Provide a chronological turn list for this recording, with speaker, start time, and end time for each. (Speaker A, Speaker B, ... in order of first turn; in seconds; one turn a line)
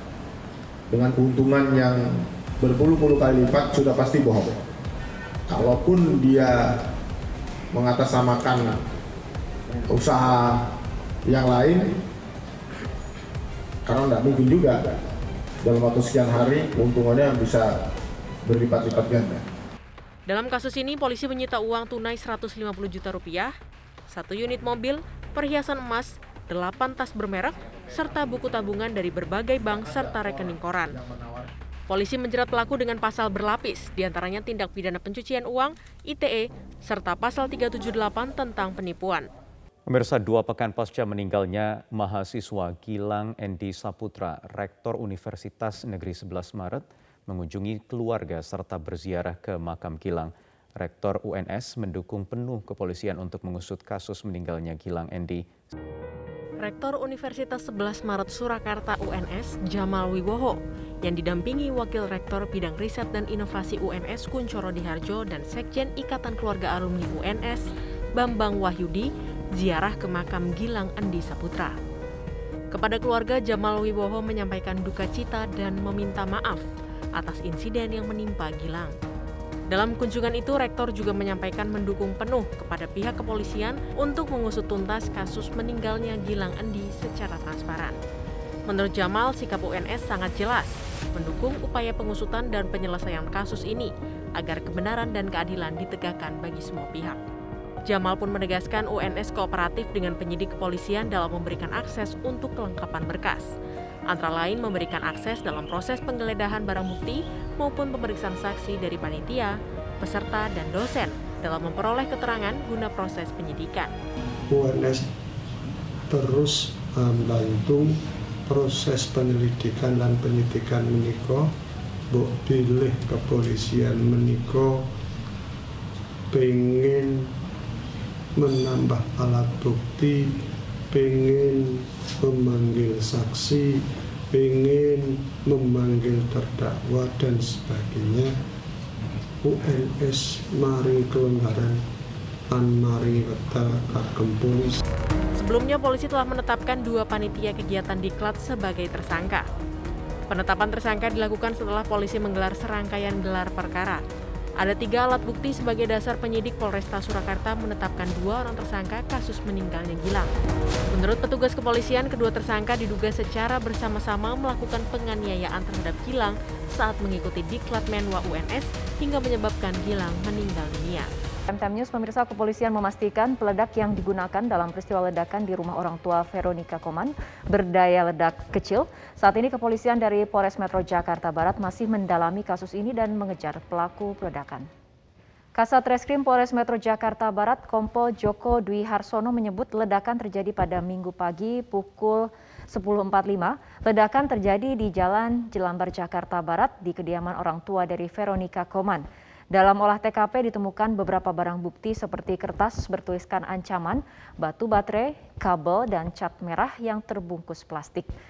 Speaker A: 0.9-4.5
Speaker A: 5.5-6.7
Speaker A: 7.7-8.8
Speaker A: 9.9-10.6
Speaker A: 11.2-11.9
Speaker A: 13.8-14.8
Speaker A: 15.6-17.7
Speaker A: 18.4-19.4
Speaker B: 20.3-23.5
Speaker B: 24.1-31.0
Speaker A: 29.6-31.5
Speaker B: 31.9-39.3
Speaker C: 39.9-55.5
Speaker B: 56.6-71.7
Speaker B: 72.7-76.6
Speaker B: 77.2-78.9
Speaker B: 79.7-88.0
Speaker B: 88.7-97.2
Speaker B: 97.8-103.5
Speaker B: 104.1-113.9
Speaker D: 114.5-115.1
Speaker D: 116.1-121.5
Speaker D: 122.1-124.8
Speaker D: 126.3-127.3
Speaker D: 128.3-130.3
Speaker D: 130.9-138.3
Speaker D: 139.4-141.8
Speaker D: 142.5-144.8
Speaker B: 145.3-149.4
Speaker B: 150.3-154.0
Speaker B: 154.6-160.3
Speaker B: 160.9-171.1
Speaker E: 171.5-184.7
Speaker E: 185.6-208.1